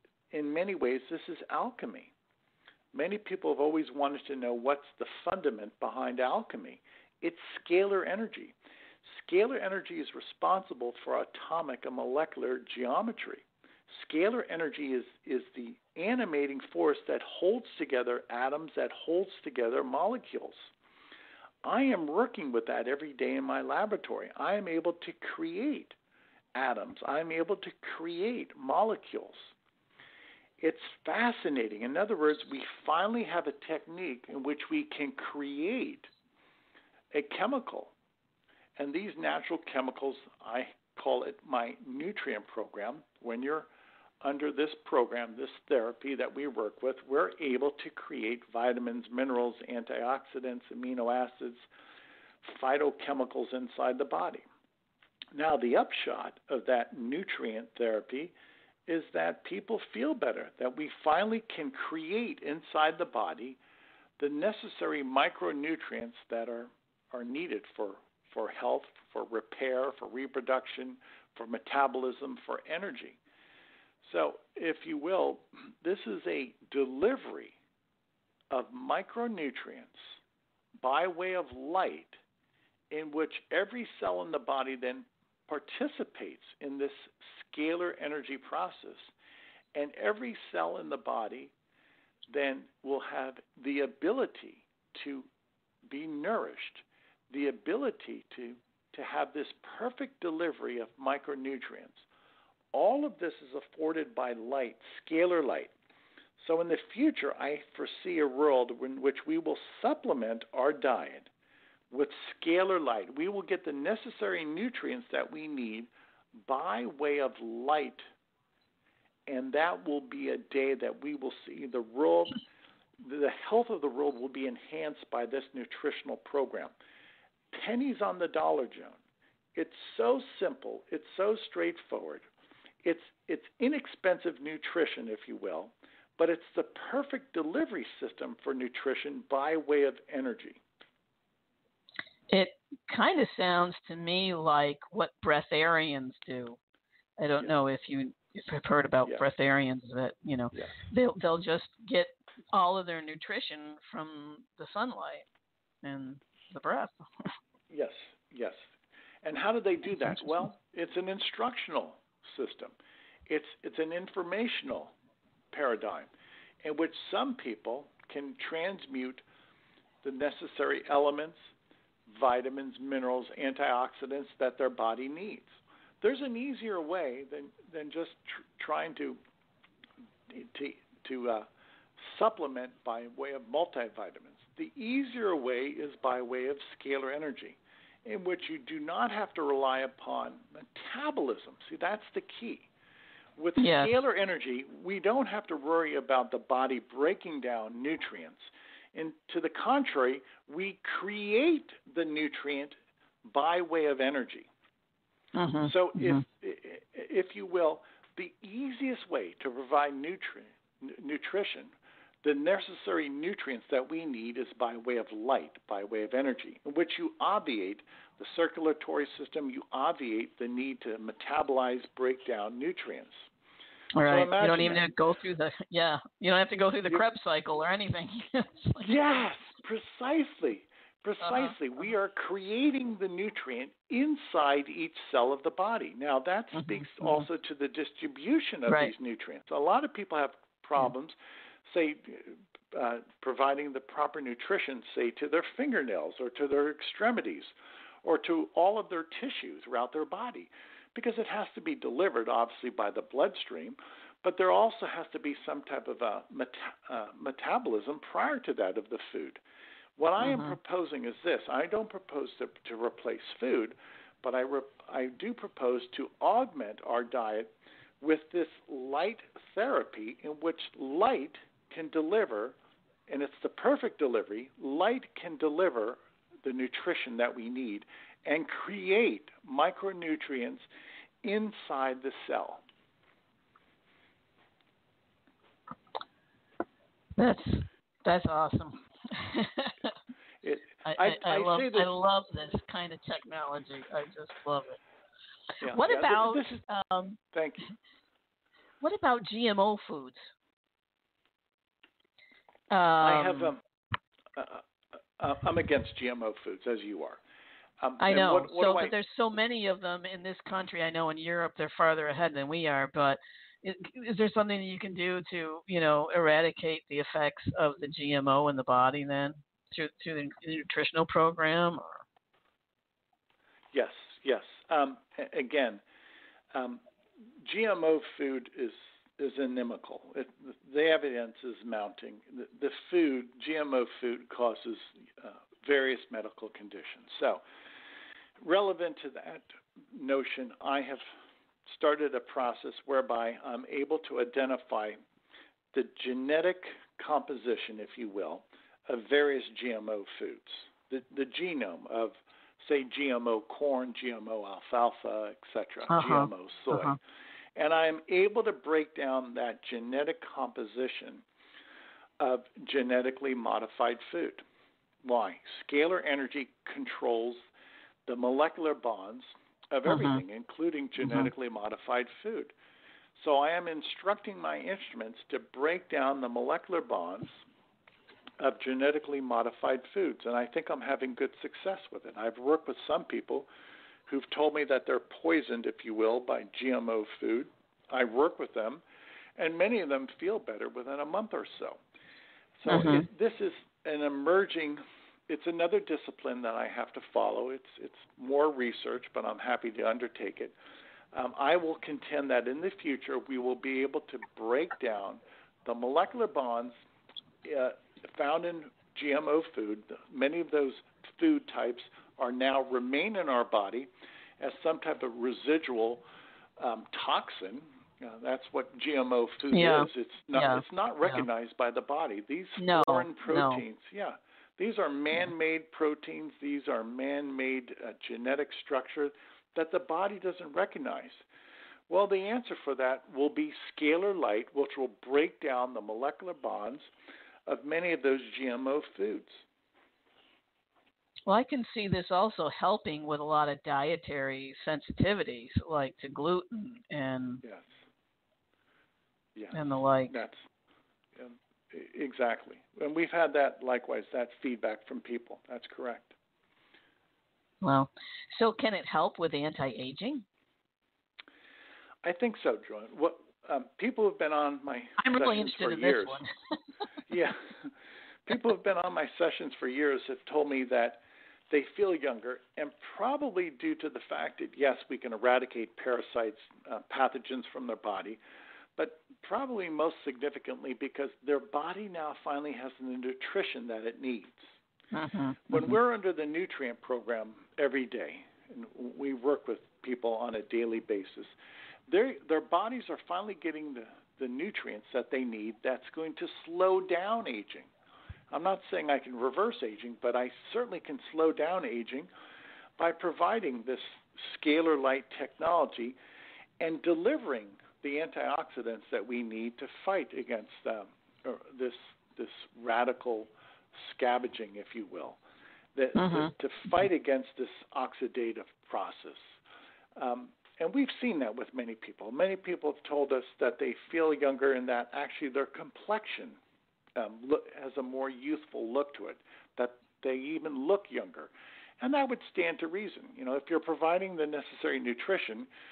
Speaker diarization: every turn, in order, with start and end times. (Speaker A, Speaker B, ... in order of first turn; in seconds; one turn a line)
Speaker A: 0.3-2.1
Speaker A: 2.9-20.7
Speaker A: 21.6-25.9
Speaker A: 26.5-29.5
Speaker A: 30.6-36.1
Speaker A: 37.1-37.9
Speaker A: 38.8-43.7
Speaker A: 44.2-51.7
Speaker A: 52.4-54.4
Speaker A: 55.3-58.3
Speaker A: 58.9-63.6
Speaker A: 64.2-73.2
Speaker A: 74.0-77.5
Speaker A: 78.5-80.1
Speaker A: 80.8-82.2
Speaker A: 82.9-89.1
Speaker A: 89.7-91.5
Speaker A: 92.3-95.3
Speaker A: 95.8-102.0
Speaker A: 102.7-105.7
Speaker A: 106.4-111.3
Speaker A: 111.9-118.0
Speaker A: 119.3-122.4
Speaker A: 123.0-126.7
Speaker A: 127.5-129.0
Speaker A: 129.5-132.3
Speaker A: 132.8-140.6
Speaker B: 142.3-146.6
Speaker B: 147.2-155.2
Speaker B: 155.8-157.3
Speaker A: 157.7-158.7
Speaker A: 159.2-162.8
Speaker B: 159.9-160.2
Speaker A: 163.3-164.9
Speaker A: 165.5-166.1
Speaker A: 166.6-169.2
Speaker A: 170.0-171.5
Speaker A: 172.1-179.2
Speaker A: 180.3-192.7
Speaker A: 193.4-204.5
Speaker B: 193.6-193.9
Speaker B: 205.3-206.2
Speaker A: 205.6-223.3
Speaker B: 223.9-228.9
Speaker A: 224.1-224.8
Speaker A: 228.8-259.4
Speaker B: 231.2-231.5
Speaker B: 236.5-237.3
Speaker B: 238.7-238.9
Speaker A: 260.0-272.6
Speaker B: 260.2-260.6
Speaker A: 273.1-280.6
Speaker A: 281.2-282.6
Speaker B: 287.2-289.9
Speaker A: 290.4-291.9
Speaker B: 290.8-294.8
Speaker A: 295.6-296.6
Speaker B: 295.6-297.2
Speaker A: 297.3-297.7
Speaker B: 298.8-300.3
Speaker B: 302.7-303.5
Speaker A: 303.0-303.6
Speaker A: 304.3-304.6
Speaker A: 305.2-307.2
Speaker A: 307.8-308.9
Speaker B: 308.0-322.0
Speaker A: 323.7-325.8
Speaker A: 326.5-326.8
Speaker A: 327.4-337.4
Speaker A: 338.4-341.1
Speaker A: 341.6-345.0
Speaker A: 345.7-357.0
Speaker B: 355.9-357.0
Speaker A: 357.5-361.2
Speaker A: 362.2-364.4
Speaker A: 365.0-367.5
Speaker A: 368.1-372.5
Speaker B: 369.9-370.2
Speaker B: 371.0-371.3
Speaker A: 373.1-377.4
Speaker A: 378.4-383.5
Speaker A: 384.1-388.8
Speaker A: 389.4-391.8
Speaker A: 392.6-400.5
Speaker B: 392.7-393.1
Speaker A: 401.1-406.7
Speaker A: 407.4-413.9
Speaker A: 414.4-416.0
Speaker A: 416.6-431.2
Speaker B: 419.5-421.2
Speaker B: 422.6-423.6
Speaker A: 431.9-436.9
Speaker A: 437.4-439.4
Speaker B: 441.3-447.4
Speaker A: 447.4-447.7
Speaker A: 449.3-450.4
Speaker B: 449.5-450.1
Speaker A: 451.1-456.1
Speaker B: 457.6-460.2
Speaker A: 462.0-466.2
Speaker B: 465.0-466.3
Speaker A: 467.1-467.7
Speaker A: 468.2-478.2
Speaker A: 478.8-484.5
Speaker B: 484.9-485.8
Speaker A: 485.5-491.3
Speaker A: 491.9-497.7
Speaker A: 498.3-502.1
Speaker A: 502.8-506.0
Speaker A: 506.6-515.2
Speaker A: 515.7-519.4
Speaker B: 516.0-516.3
Speaker A: 520.0-526.4
Speaker A: 526.9-535.5